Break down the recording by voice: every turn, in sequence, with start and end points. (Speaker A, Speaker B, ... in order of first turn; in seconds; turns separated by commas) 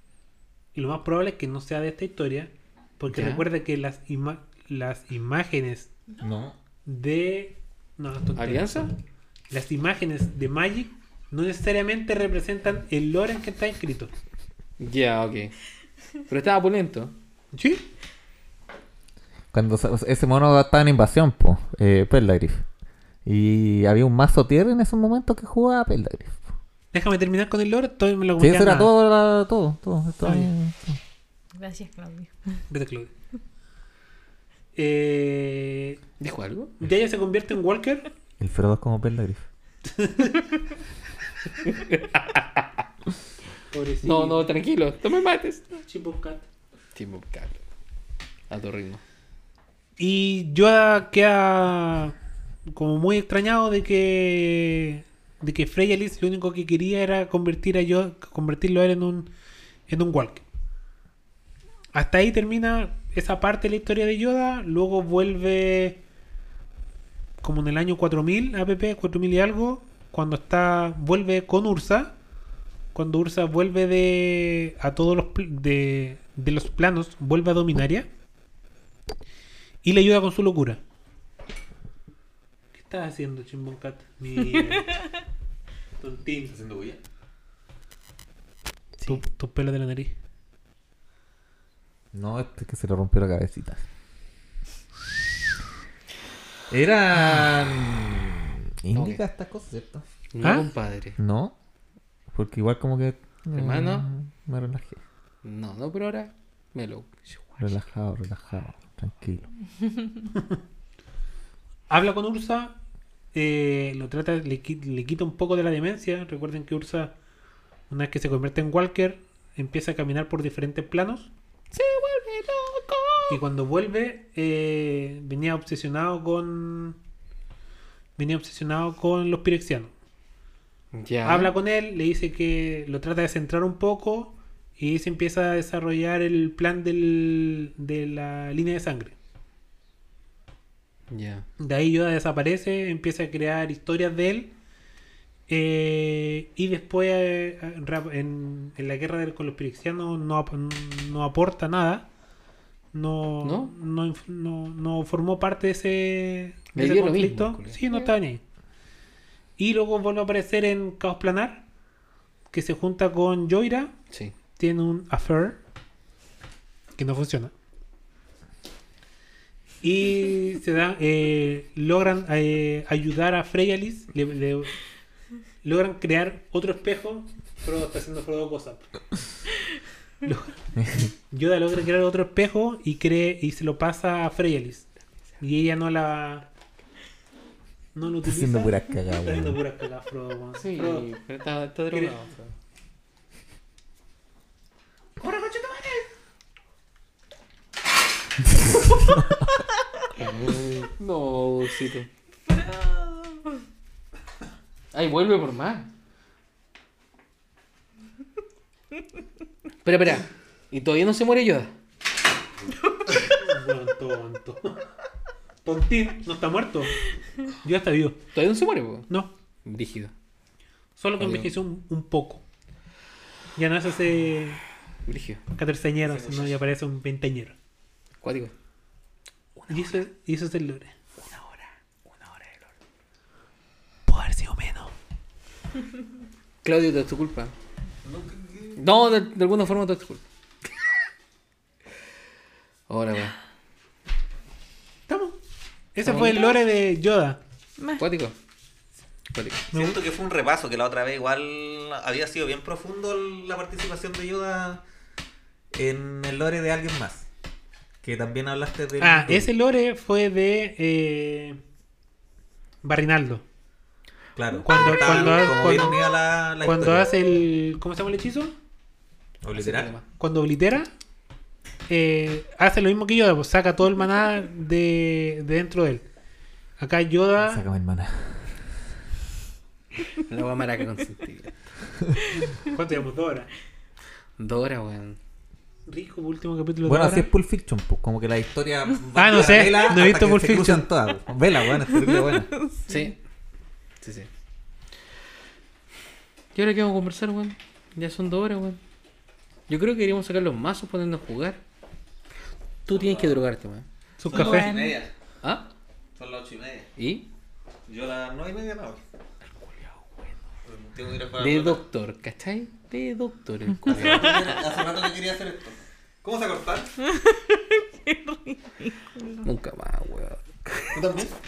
Speaker A: 0.7-5.9, Speaker B: 3.1-3.4, Speaker C: 6.2-6.6, Speaker A: 6.8-8.9, Speaker B: 8.4-8.9, Speaker A: 9.5-14.2, Speaker B: 14.8-15.5, Speaker B: 16.3-17.1, Speaker A: 17.5-17.8, Speaker C: 19.5-22.6, Speaker C: 23.2-26.4, Speaker A: 26.9-28.9, Speaker C: 28.4-31.0, Speaker A: 30.2-30.5, Speaker D: 31.5-32.6, Speaker A: 32.7-33.1, Speaker A: 34.7-36.0, Speaker B: 36.2-36.7, Speaker A: 36.8-38.0, Speaker C: 38.4-39.4, Speaker A: 39.9-40.4, Speaker B: 41.6-42.6, Speaker A: 43.7-44.5, Speaker B: 44.0-45.8, Speaker A: 45.9-46.4, Speaker B: 46.9-47.6, Speaker B: 48.5-49.0, Speaker A: 50.0-52.1, Speaker A: 52.7-59.3, Speaker A: 59.9-60.4, Speaker A: 61.9-66.0, Speaker A: 67.4-72.1, Speaker A: 72.9-78.1, Speaker A: 79.8-80.8, Speaker A: 82.7-85.1, Speaker A: 86.0-86.6, Speaker C: 86.5-87.0, Speaker A: 89.0-90.1, Speaker C: 92.1-93.8, Speaker C: 96.7-100.0, Speaker B: 98.9-99.2, Speaker B: 100.3-101.2, Speaker C: 101.2-101.5, Speaker C: 102.3-105.0, Speaker B: 103.5-104.1, Speaker B: 105.4-107.7, Speaker C: 107.6-109.5, Speaker A: 111.9-112.8, Speaker A: 113.3-117.1, Speaker A: 117.9-121.3, Speaker B: 121.7-123.4, Speaker A: 123.3-127.0, Speaker A: 128.2-129.9, Speaker B: 130.9-131.5, Speaker A: 131.2-139.1, Speaker B: 141.1-141.4, Speaker A: 141.6-144.5, Speaker A: 145.5-152.1, Speaker A: 152.9-158.4, Speaker B: 153.4-153.7, Speaker B: 156.7-157.8, Speaker A: 159.6-161.6, Speaker A: 162.5-163.9, Speaker A: 164.6-165.6, Speaker A: 167.0-167.5, Speaker A: 169.8-174.7, Speaker A: 175.6-178.9, Speaker A: 180.2-184.9, Speaker C: 180.8-181.1, Speaker A: 185.4-186.5, Speaker A: 187.9-191.1, Speaker C: 188.2-189.6, Speaker B: 190.6-192.5, Speaker A: 195.2-196.0, Speaker C: 198.5-199.6, Speaker B: 200.2-202.1, Speaker D: 202.5-203.4, Speaker B: 204.9-205.9, Speaker B: 209.8-211.7, Speaker A: 213.2-214.8, Speaker A: 215.6-216.9, Speaker A: 217.6-218.2, Speaker B: 218.3-219.1, Speaker B: 219.6-220.1, Speaker A: 221.0-222.4, Speaker B: 221.2-221.5, Speaker A: 223.6-224.6, Speaker B: 225.1-225.4, Speaker A: 225.5-227.5, Speaker C: 226.2-226.4, Speaker B: 228.2-228.5, Speaker B: 229.6-230.0, Speaker A: 229.7-230.9, Speaker B: 231.2-232.7, Speaker A: 234.1-234.9, Speaker B: 236.6-237.5, Speaker C: 238.0-238.8, Speaker B: 238.8-240.2, Speaker B: 242.9-243.3, Speaker A: 245.1-245.4, Speaker A: 245.9-247.4, Speaker B: 246.0-246.5, Speaker D: 247.8-248.0, Speaker B: 248.0-248.3, Speaker B: 249.3-249.7, Speaker C: 249.7-254.8, Speaker A: 249.7-250.0, Speaker C: 255.7-257.3, Speaker C: 258.0-259.5, Speaker A: 259.0-261.6, Speaker A: 262.8-263.4, Speaker C: 264.4-267.1, Speaker A: 264.6-266.1, Speaker A: 266.6-268.5, Speaker C: 269.4-269.9, Speaker B: 269.5-270.0, Speaker A: 270.2-270.9, Speaker A: 271.9-276.0, Speaker A: 276.8-277.6, Speaker C: 277.4-278.5, Speaker B: 280.1-281.6, Speaker A: 282.5-283.5, Speaker B: 284.4-285.2, Speaker A: 285.9-287.3, Speaker C: 286.8-292.5, Speaker A: 289.1-290.9, Speaker D: 292.0-293.1, Speaker B: 292.9-293.1, Speaker B: 294.0-294.3, Speaker B: 296.5-298.8, Speaker B: 299.7-301.6, Speaker B: 302.9-303.9, Speaker C: 302.9-303.4, Speaker A: 304.2-304.7, Speaker C: 304.2-305.1, Speaker D: 304.3-305.0, Speaker B: 305.4-305.7, Speaker C: 306.1-306.9, Speaker B: 307.0-307.3, Speaker C: 307.9-309.0, Speaker B: 309.6-310.1, Speaker C: 310.6-311.8, Speaker B: 311.4-314.5, Speaker C: 313.8-316.9, Speaker D: 317.1-319.4, Speaker B: 319.4-320.9, Speaker C: 320.9-321.3